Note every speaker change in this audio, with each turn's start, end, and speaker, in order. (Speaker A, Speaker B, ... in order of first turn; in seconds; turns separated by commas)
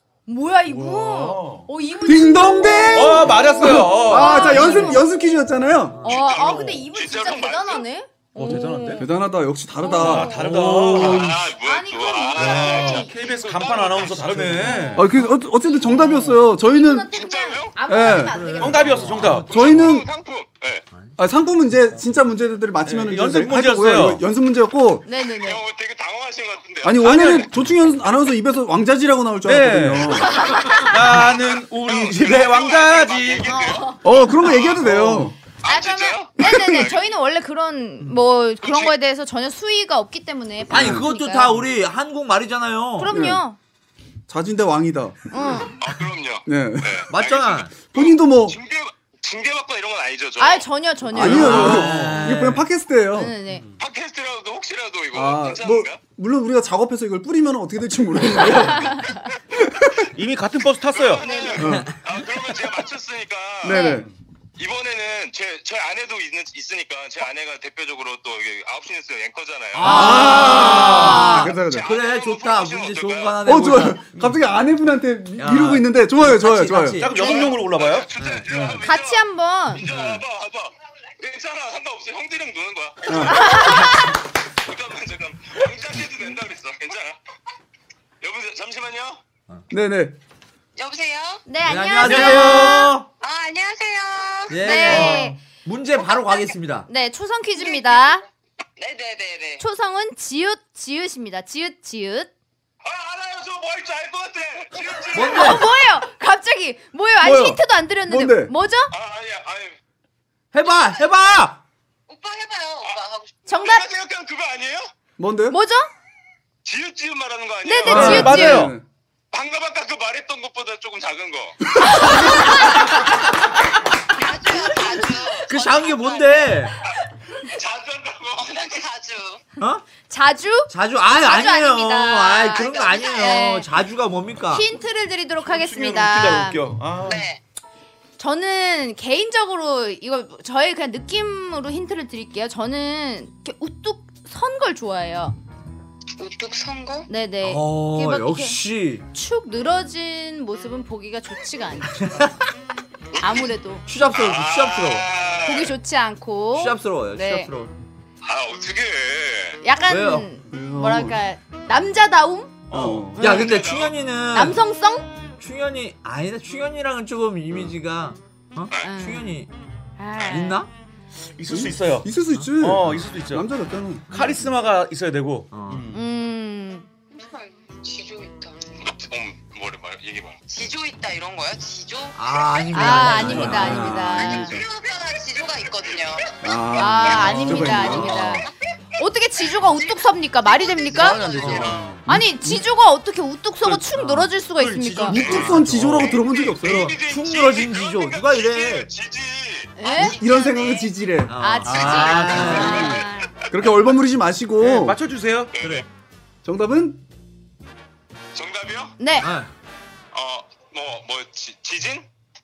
Speaker A: 0.3-5.1, Speaker B: 0.7-1.7, Speaker C: 2.0-6.0, Speaker B: 2.9-5.0, Speaker D: 5.9-6.3, Speaker E: 6.0-7.8, Speaker A: 6.0-9.1, Speaker B: 8.3-9.1, Speaker C: 8.9-11.4, Speaker A: 9.8-10.5, Speaker B: 9.9-11.3, Speaker E: 10.9-14.9, Speaker A: 11.6-13.3, Speaker B: 12.3-15.1, Speaker A: 14.6-15.0, Speaker C: 14.9-17.1, Speaker A: 15.7-19.2, Speaker E: 17.1-17.8, Speaker C: 17.9-18.4, Speaker D: 18.1-19.9, Speaker B: 18.6-19.5, Speaker E: 19.4-20.8, Speaker C: 19.5-20.1, Speaker C: 21.2-25.0, Speaker B: 22.8-24.2, Speaker A: 25.0-25.6, Speaker E: 25.3-27.4, Speaker C: 26.8-30.3, Speaker B: 27.0-27.4, Speaker B: 29.4-33.5, Speaker A: 30.2-30.9, Speaker E: 31.0-34.9, Speaker A: 33.4-34.0, Speaker C: 34.0-35.4, Speaker B: 34.9-35.3, Speaker E: 35.6-37.1, Speaker A: 35.6-41.6, Speaker E: 38.6-38.9, Speaker D: 40.7-43.1, Speaker C: 40.7-41.0, Speaker A: 43.0-43.6, Speaker C: 43.1-43.4, Speaker C: 44.3-45.2, Speaker A: 45.3-45.7, Speaker E: 45.8-50.6, Speaker C: 46.5-47.0, Speaker D: 47.1-47.7, Speaker C: 47.9-48.5, Speaker A: 50.4-52.1, Speaker C: 51.1-53.3, Speaker D: 51.2-52.6, Speaker B: 51.3-52.4, Speaker A: 53.1-53.6, Speaker E: 53.8-56.0, Speaker C: 55.1-60.0, Speaker A: 58.8-59.0, Speaker B: 60.1-61.2, Speaker E: 60.9-63.8, Speaker A: 61.2-61.6, Speaker C: 61.6-61.9, Speaker C: 63.6-64.1, Speaker A: 63.6-64.0, Speaker E: 64.5-73.4, Speaker D: 69.7-74.0, Speaker A: 69.8-71.5, Speaker C: 69.8-71.8, Speaker C: 73.4-77.0, Speaker D: 75.4-77.4, Speaker B: 77.0-78.8, Speaker E: 77.1-87.2, Speaker A: 77.2-77.5, Speaker D: 78.2-78.5, Speaker A: 78.8-79.8, Speaker D: 79.8-80.2, Speaker C: 83.1-83.4, Speaker A: 83.3-84.1, Speaker E: 88.2-89.2, Speaker C: 89.7-90.2, Speaker F: 90.8-91.4, Speaker A: 91.5-92.9, Speaker D: 91.7-93.1, Speaker B: 92.0-92.9, Speaker F: 93.2-94.7, Speaker D: 94.5-96.9, Speaker A: 94.6-95.4, Speaker B: 94.8-95.3, Speaker A: 96.9-98.2, Speaker F: 97.6-97.9, Speaker F: 98.8-99.6, Speaker A: 99.6-102.3, Speaker E: 102.8-105.6, Speaker D: 105.1-105.7, Speaker A: 105.1-108.9, Speaker C: 107.2-108.5, Speaker E: 108.9-109.8, Speaker D: 110.5-111.6, Speaker F: 112.1-113.3, Speaker A: 113.5-113.8, Speaker E: 113.5-114.9, Speaker C: 115.2-115.6, Speaker A: 115.5-115.9, Speaker E: 116.6-118.4, Speaker A: 117.6-118.7, Speaker C: 117.8-118.8, Speaker B: 117.9-118.7, Speaker E: 119.3-122.4, Speaker A: 122.1-122.6, Speaker F: 124.1-126.5, Speaker D: 125.4-126.8, Speaker E: 127.5-128.8, Speaker F: 128.5-129.4, Speaker D: 129.6-129.8, Speaker A: 130.1-133.7, Speaker D: 130.7-134.6, Speaker F: 132.5-133.4, Speaker A: 134.5-136.6, Speaker B: 135.4-137.3, Speaker F: 137.0-137.4, Speaker A: 138.2-145.3, Speaker F: 146.2-147.1, Speaker A: 147.1-148.6, Speaker D: 147.4-149.1, Speaker A: 149.1-152.3, Speaker D: 152.0-152.3, Speaker E: 153.1-153.5, Speaker A: 153.2-153.8, Speaker D: 153.8-155.1, Speaker E: 154.0-155.7, Speaker A: 155.4-157.5, Speaker D: 156.5-157.7, Speaker E: 158.2-159.6, Speaker A: 159.6-162.6, Speaker D: 159.9-160.3, Speaker C: 160.5-161.2, Speaker B: 162.7-163.1, Speaker C: 162.7-163.2, Speaker A: 163.2-163.6, Speaker D: 163.2-164.6, Speaker E: 163.2-164.0, Speaker A: 164.3-165.1, Speaker D: 165.4-169.5, Speaker A: 168.8-169.3, Speaker A: 170.0-170.6, Speaker D: 170.2-170.7, Speaker B: 171.4-172.1, Speaker C: 171.5-174.1, Speaker B: 172.6-173.5, Speaker D: 174.1-174.5, Speaker B: 174.1-176.0, Speaker D: 175.5-175.9, Speaker A: 175.9-176.9, Speaker F: 177.1-178.6, Speaker E: 178.8-180.4, Speaker F: 180.5-182.7, Speaker D: 182.1-184.2, Speaker A: 182.7-184.6, Speaker B: 183.1-183.7, Speaker C: 183.3-184.6, Speaker F: 184.1-186.3, Speaker C: 186.4-188.4, Speaker A: 186.7-188.4, Speaker D: 187.3-188.4, Speaker A: 189.0-195.2, Speaker F: 190.4-191.8, Speaker B: 190.9-192.0, Speaker D: 191.4-191.8, Speaker C: 192.1-192.6, Speaker B: 193.6-195.9, Speaker C: 195.1-196.9, Speaker E: 195.2-199.8, Speaker D: 195.3-198.9, Speaker A: 199.8-200.2, Speaker F: 199.8-200.9, Speaker C: 199.9-201.3, Speaker D: 201.2-203.0, Speaker A: 201.4-203.3, Speaker B: 201.7-202.7, Speaker C: 202.4-202.8, Speaker C: 203.5-205.0, Speaker B: 204.6-205.5, Speaker E: 205.5-205.8, Speaker D: 205.6-205.8, Speaker C: 206.4-207.0, Speaker E: 208.3-208.9, Speaker A: 209.0-209.3, Speaker D: 209.2-209.5, Speaker E: 210.1-212.1